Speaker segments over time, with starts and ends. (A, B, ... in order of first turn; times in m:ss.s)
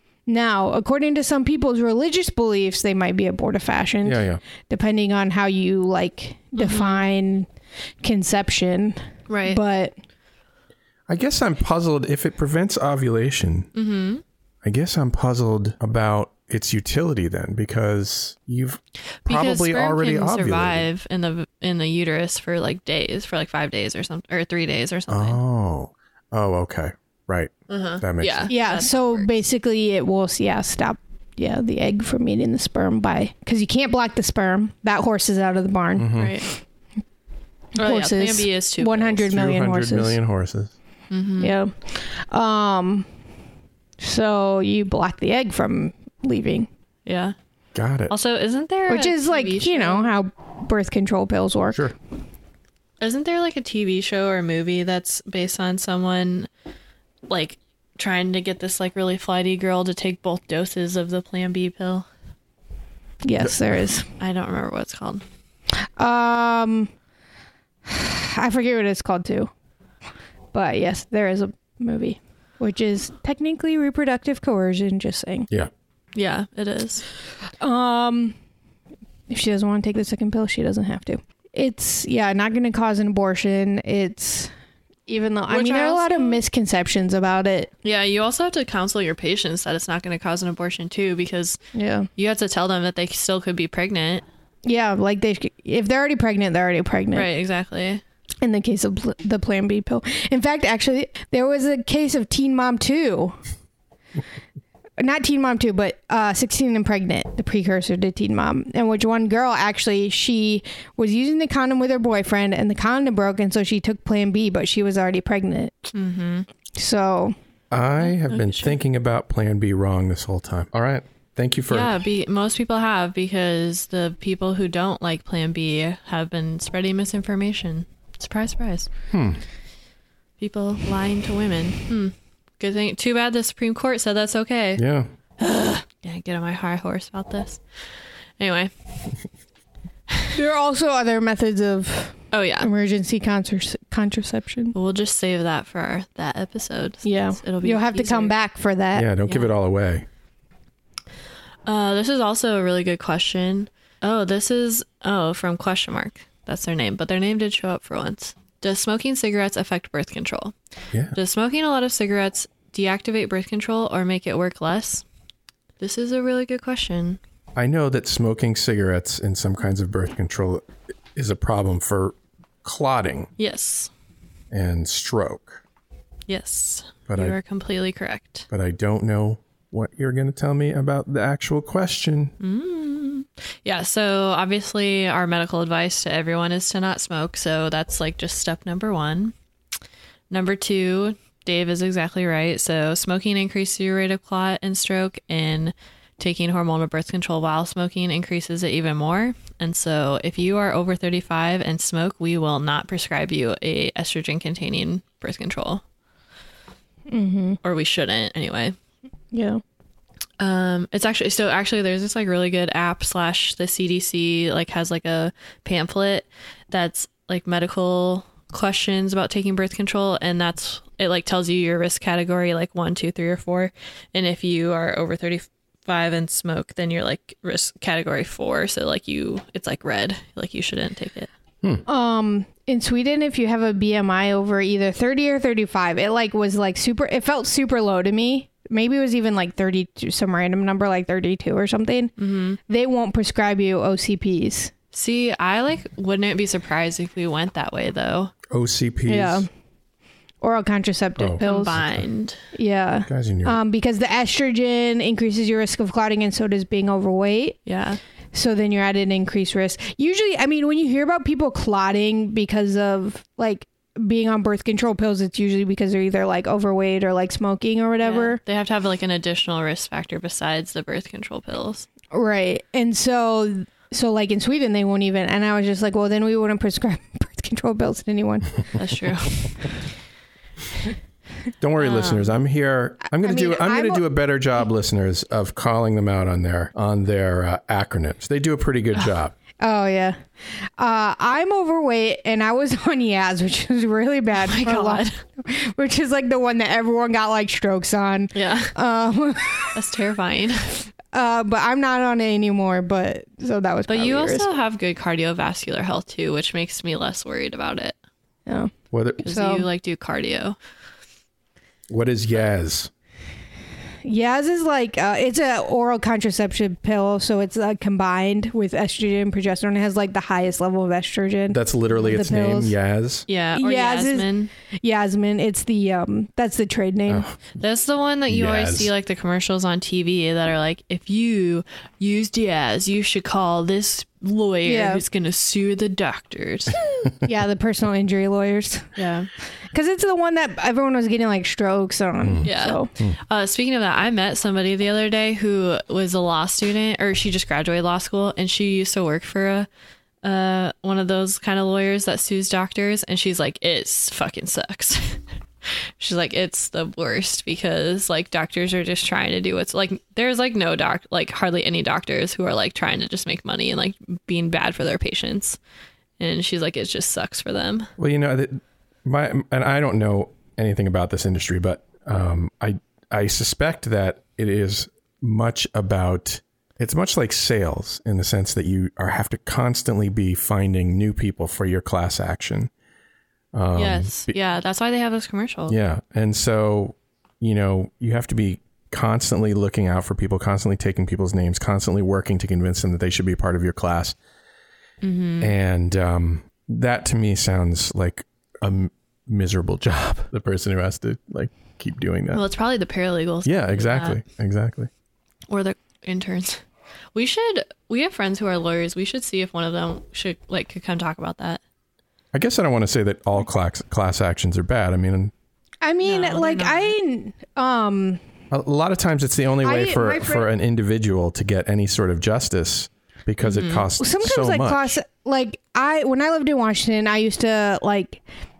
0:00.3-0:07.5 A
0:04.0-0:04.4 B
0:06.6-0:07.0 C
0:08.0-0:10.0 A
0:09.3-0:09.6 C
0:11.1-0:13.7 B
0:13.7-0:14.2 C
0:14.6-0:20.9 B
0:19.2-0:25.4 C
0:25.1-0:28.5 B
0:27.7-0:29.3 C
0:28.5-0:36.1 A
0:36.0-0:36.4 B
0:36.2-0:36.5 C
0:37.8-0:39.3 C
0:37.8-0:40.2 A
0:39.3-0:40.7 B
0:41.1-0:41.6 C
0:41.4-0:43.1 A
0:44.0-0:46.7 A
0:47.1-0:47.4 C
0:47.8-0:48.1 B
0:48.1-0:50.1 C
0:48.9-0:51.9 A
0:53.0-0:56.5 C
0:57.3-1:02.1 C
1:03.2-1:04.1 A
1:04.2-1:05.2 C
1:05.9-1:06.9 A
1:07.8-1:09.5 A
1:10.5-1:15.5 A
1:16.2-1:17.1 C
1:17.6-1:18.4 A
1:19.3-1:24.5 A
1:25.1-1:27.7 A
1:25.5-1:26.4 C
1:27.8-1:31.6 C
1:31.7-1:32.1 A
1:32.2-1:34.2 C
1:34.6-1:37.3 A
1:37.1-1:38.0 C
1:38.4-1:43.4 A
1:45.0-1:55.9 A
1:55.9-1:56.5 C
1:56.7-1:57.4 A
1:57.7-2:01.9 B
1:58.0-1:58.8 C
2:01.7-2:08.9 C
2:09.1-2:09.4 B
2:10.4-2:14.8 C
2:14.8-2:15.1 B
2:15.4-2:17.6 C
2:18.4-2:18.7 C
2:20.3-2:24.8 A
2:22.3-2:22.7 C
2:24.7-2:28.3 C
2:27.0-2:29.1 A
2:29.0-2:30.0 B
2:29.2-2:29.5 C
2:31.7-2:40.6 C
2:41.1-2:45.0 C
2:45.8-2:47.2 C
2:47.6-2:53.3 B
2:53.4-2:53.9 C
2:54.5-2:55.6 B
2:56.3-2:58.5 C
2:57.1-2:57.4 B
2:58.5-3:02.3 B
3:02.4-3:09.3 C
3:10.3-3:25.8 C
3:27.1-3:27.6 A
3:27.6-3:28.8 C
3:29.3-3:29.6 A
3:30.4-3:51.3 C
3:51.9-4:02.1 A
4:02.2-4:02.6 C
4:02.7-4:04.7 A
4:04.9-4:08.3 C
4:08.5-4:09.5 B
4:09.1-4:09.5 A
4:10.4-4:11.8 A
4:11.2-4:12.0 B
4:11.4-4:12.4 C
4:12.5-4:17.6 A
4:13.1-4:13.6 B
4:17.7-4:18.0 C
4:18.3-4:28.4 A
4:28.0-4:31.9 C
4:32.1-4:38.6 A
4:38.8-4:39.7 C
4:41.6-4:49.3 B
4:41.8-4:42.3 C
4:43.1-4:44.0 A
4:49.6-4:59.8 A
4:54.4-4:55.2 C
4:58.3-4:58.7 C
4:59.7-5:00.8 C
5:01.1-5:04.5 A
5:03.9-5:08.0 C
5:08.5-5:08.7 A
5:08.9-5:09.2 B
5:09.2-5:10.6 C
5:09.2-5:09.7 A
5:11.9-5:12.9 B
5:14.0-5:22.8 A
5:21.5-5:23.3 B
5:23.3-5:24.5 C
5:23.6-5:27.3 A
5:27.1-5:27.4 B
5:27.6-5:36.8 C
5:28.3-5:28.9 B
5:34.6-5:35.0 A
5:37.0-5:39.0 A
5:39.0-5:39.3 C
5:39.7-5:42.9 A
5:42.2-5:42.5 B
5:42.4-5:49.7 C
5:50.2-6:05.6 C
6:06.2-6:07.9 C
6:08.0-6:22.7 B
6:23.5-6:24.4 B
6:23.8-6:25.8 C
6:25.7-6:34.2 B
6:35.0-6:35.5 C
6:35.4-6:42.4 B
6:42.3-6:44.2 C
6:43.4-6:44.9 B
6:45.5-6:46.6 C
6:47.2-6:51.6 C
6:52.3-6:55.3 B
6:55.8-6:58.2 A
6:56.0-6:56.9 C
6:58.5-7:05.0 B
6:59.6-7:00.5 A
7:03.4-7:03.9 C
7:04.0-7:08.2 A